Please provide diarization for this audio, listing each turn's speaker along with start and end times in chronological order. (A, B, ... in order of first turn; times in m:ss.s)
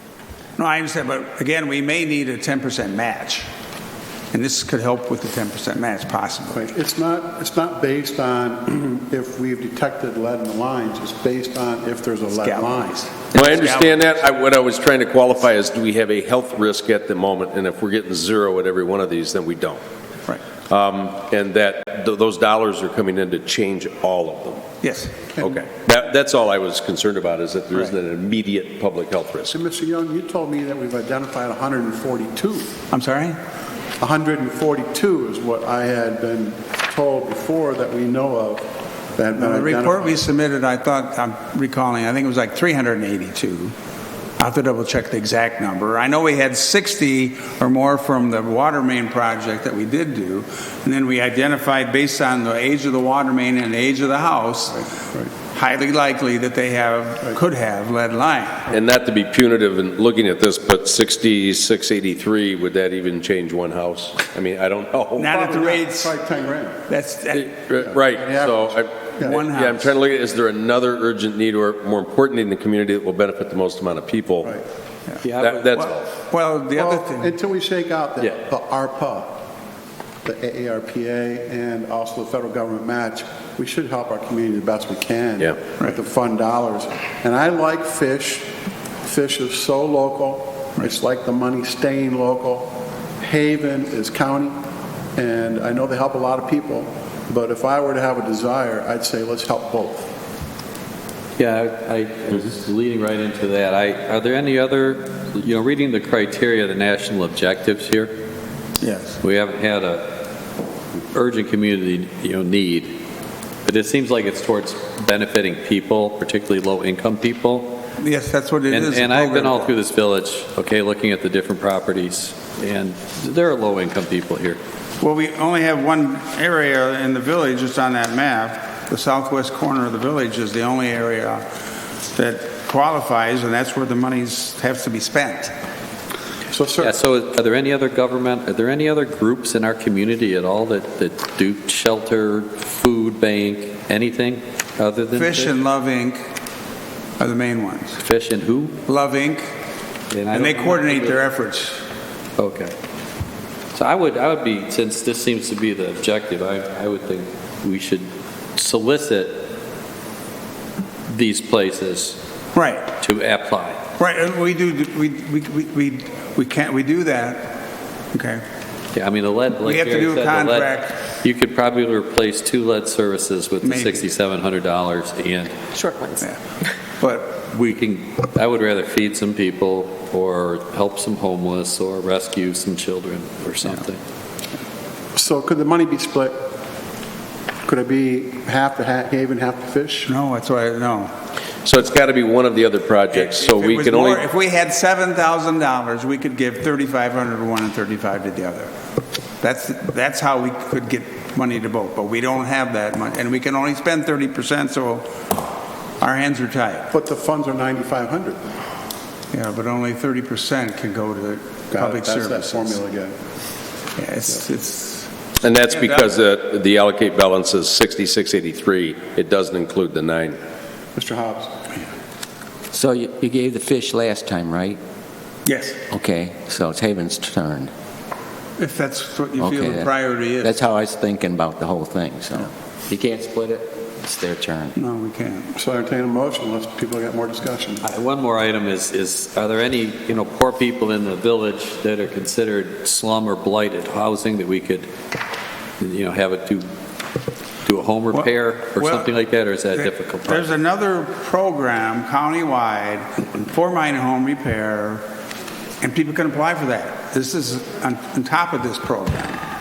0:00.6-0:03.5 A
0:04.3-0:06.6 A
0:06.5-0:13.0 B
0:12.4-0:14.0 A
0:13.3-0:19.8 C
0:20.7-0:24.7 C
0:24.8-0:25.3 A
0:25.4-0:29.5 C
0:29.5-0:32.7 B
0:32.9-0:33.4 A
0:34.0-0:38.6 B
0:39.2-0:40.2 B
0:39.4-0:43.7 A
0:44.4-0:54.8 A
0:54.8-0:55.3 B
0:55.5-0:58.7 A
0:58.7-1:05.3 C
1:05.2-1:06.1 A
1:05.2-1:06.8 B
1:06.9-1:07.6 A
1:07.3-1:14.5 C
1:07.8-1:09.4 B
1:09.2-1:09.9 A
1:15.2-1:15.7 D
1:15.4-1:16.2 C
1:15.7-1:17.3 A
1:16.7-1:19.4 B
1:20.2-1:28.4 B
1:29.0-1:34.5 B
1:35.2-1:40.1 B
1:41.4-1:48.1 D
1:48.8-1:49.2 A
1:49.2-1:50.2 D
1:51.1-1:52.9 D
1:53.6-1:57.8 D
1:58.0-1:59.7 A
1:58.7-2:04.6 D
2:05.0-2:11.4 A
2:12.1-2:15.5 A
2:16.5-2:16.9 B
2:16.8-2:25.6 D
2:25.1-2:26.2 A
2:27.2-2:28.0 A
2:28.0-2:28.8 D
2:28.9-2:29.5 A
2:30.1-2:31.2 D
2:30.3-2:31.8 A
2:32.4-2:32.7 D
2:33.7-2:39.5 D
2:41.1-2:42.2 D
2:42.5-2:42.9 A
2:43.0-2:43.8 D
2:44.0-2:47.6 A
2:48.1-2:48.4 A
2:48.9-2:55.6 D
2:49.6-2:51.0 A
2:53.6-2:54.1 A
2:57.0-2:57.4 A
2:57.4-3:04.0 D
3:05.1-3:06.3 B
3:07.6-3:10.1 B
3:10.1-3:11.1 A
3:11.6-3:14.2 C
3:13.2-3:18.7 A
3:19.4-3:25.1 A
3:26.0-3:26.9 A
3:26.9-3:28.4 B
3:29.3-3:32.8 A
3:31.7-3:33.2 B
3:34.0-3:35.1 A
3:35.4-3:40.4 C
3:35.7-3:36.1 A
3:40.9-3:41.5 B
3:42.7-3:44.8 E
3:45.4-3:45.8 A
3:45.9-3:47.7 E
3:48.6-3:50.5 A
3:49.4-3:54.8 E
3:54.8-3:55.5 A
3:55.6-3:57.8 B
3:57.8-4:04.9 D
4:05.8-4:06.6 D
4:07.6-4:10.4 D
4:08.1-4:09.1 A
4:09.7-4:15.0 A
4:15.8-4:19.4 A